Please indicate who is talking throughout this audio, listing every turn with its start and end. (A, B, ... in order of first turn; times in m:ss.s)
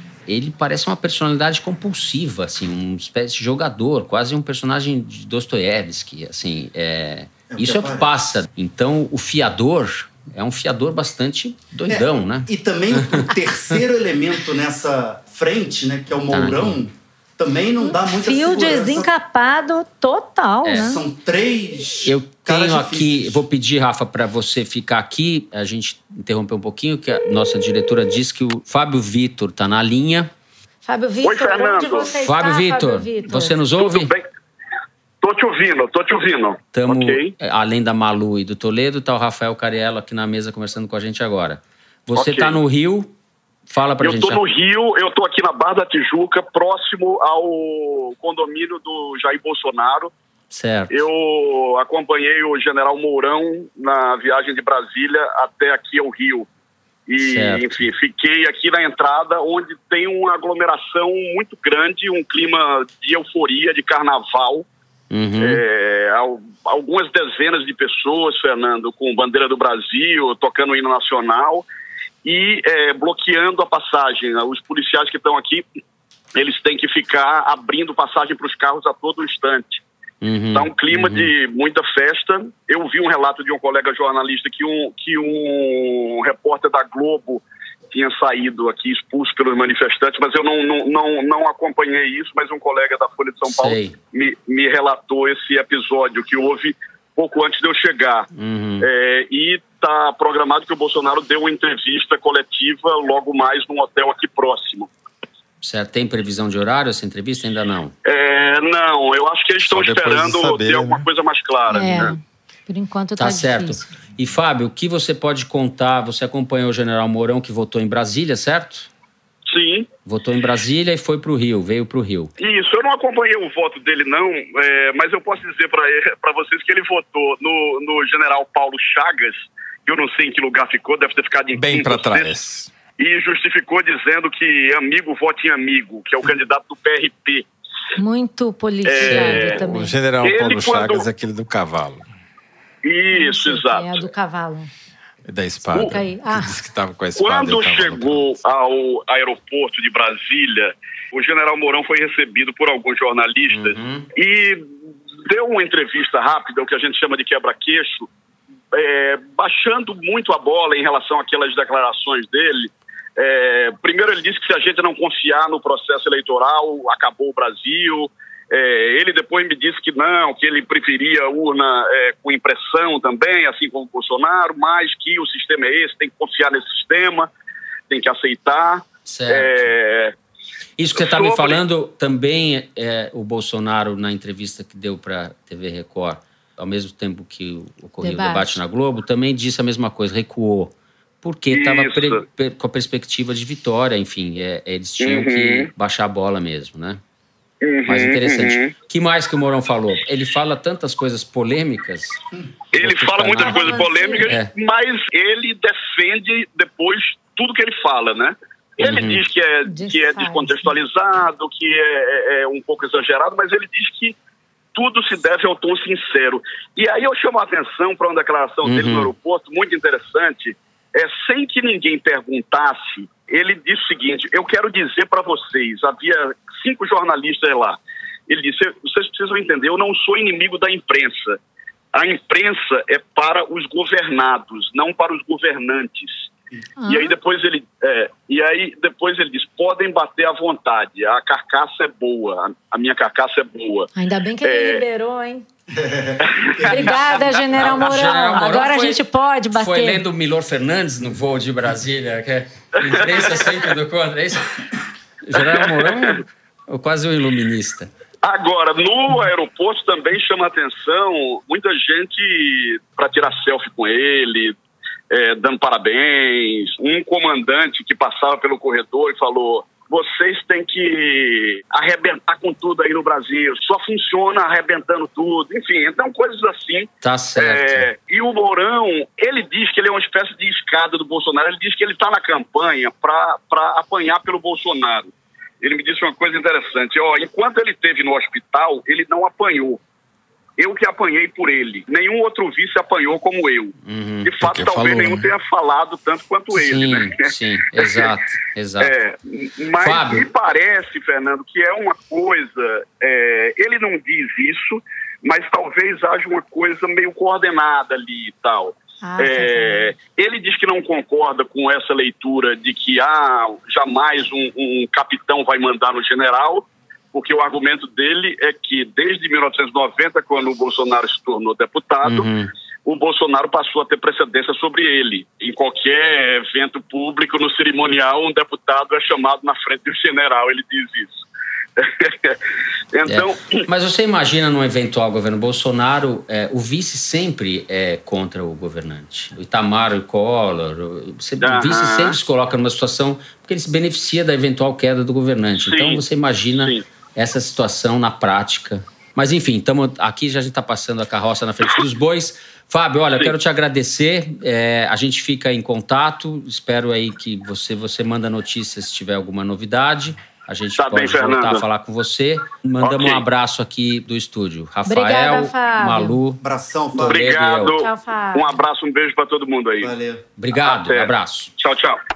0:00.3-0:13.8 A
0:07.5-0:08.1 B
0:11.9-0:19.1 B
0:16.3-0:16.8 A
0:17.8-0:21.0 C
0:20.6-0:21.0 A
0:20.7-0:23.4 B
0:22.0-0:30.3 A
0:30.8-0:33.6 C
0:31.2-0:32.1 D
0:32.2-0:34.1 A
0:33.8-0:34.3 D
0:35.2-0:37.3 D
0:36.7-0:43.1 A
0:42.1-0:42.6 D
0:43.7-0:44.4 A
0:44.0-0:50.1 D
0:50.5-0:51.0 A
0:50.9-0:56.5 D
0:57.1-1:04.7 D
0:57.2-0:57.8 A
1:05.1-1:05.6 A
1:05.4-1:11.6 D
1:12.2-1:15.6 D
1:16.4-1:19.8 D
1:20.2-1:21.3 A
1:20.5-1:38.3 D
1:33.4-1:34.0 A
1:38.3-1:38.9 A
1:38.8-1:44.9 D
1:45.6-1:47.9 A
1:48.0-1:52.2 D
1:49.6-1:51.0 E
1:51.7-1:53.8 C
1:53.2-1:58.9 A
1:59.4-1:59.9 D
2:00.0-2:02.3 A
2:02.4-2:12.3 D
2:11.6-2:12.7 E
2:13.0-2:17.5 D
2:18.0-2:20.0 C
2:18.8-2:19.6 D
2:19.0-2:19.5 A
2:19.6-2:22.0 E
2:20.2-2:21.0 D
2:22.8-2:24.0 D
2:23.1-2:24.7 C
2:25.3-2:28.4 E
2:25.8-2:26.5 C
2:27.2-2:34.6 D
2:33.5-2:34.1 A
2:35.2-2:38.1 D
2:38.7-2:57.3 D
2:57.9-3:00.1 D
2:59.0-2:59.7 A
3:00.8-3:17.0 A
3:01.0-3:01.6 D
3:08.0-3:08.6 C
3:11.5-3:12.2 D
3:15.0-3:15.7 D
3:17.6-3:18.7 D
3:17.9-3:22.2 A
3:22.7-3:24.5 A
3:22.7-3:34.2 D
3:23.4-3:24.3 C
3:28.8-3:29.2 A
3:29.6-3:30.8 C
3:34.7-3:51.4 D
3:38.6-3:39.1 A
3:51.9-3:56.3 D
3:56.8-3:57.2 C
3:56.9-4:03.9 D
4:03.9-4:05.4 C
4:04.4-4:04.8 D
4:05.7-4:07.2 B
4:06.2-4:07.2 D
4:06.7-4:10.0 C
4:07.5-4:09.0 A
4:09.5-4:17.9 A
4:12.8-4:13.6 D
4:15.4-4:16.1 D
4:18.2-4:24.6 D
4:25.1-4:49.8 D
4:37.0-4:37.9 A
4:50.6-4:58.1 D
4:53.8-4:54.3 A
4:54.4-4:55.3 E
4:56.5-4:58.9 A
4:58.8-5:22.3 D
4:59.8-5:00.3 A
5:09.0-5:09.9 C
5:22.0-5:22.5 A
5:22.8-5:31.2 D
5:31.8-5:32.4 D
5:32.9-5:33.6 D
5:33.0-6:06.4 A
5:41.4-5:42.2 D
5:45.6-5:46.0 D
5:46.6-5:46.8 D
6:00.8-6:01.6 D
6:02.8-6:03.2 D
6:04.8-6:06.2 C
6:06.4-6:07.2 B
6:07.0-6:07.8 A
6:07.0-6:09.9 D
6:07.8-6:08.6 C
6:09.8-6:10.2 B
6:10.4-6:11.5 A
6:10.5-6:12.0 D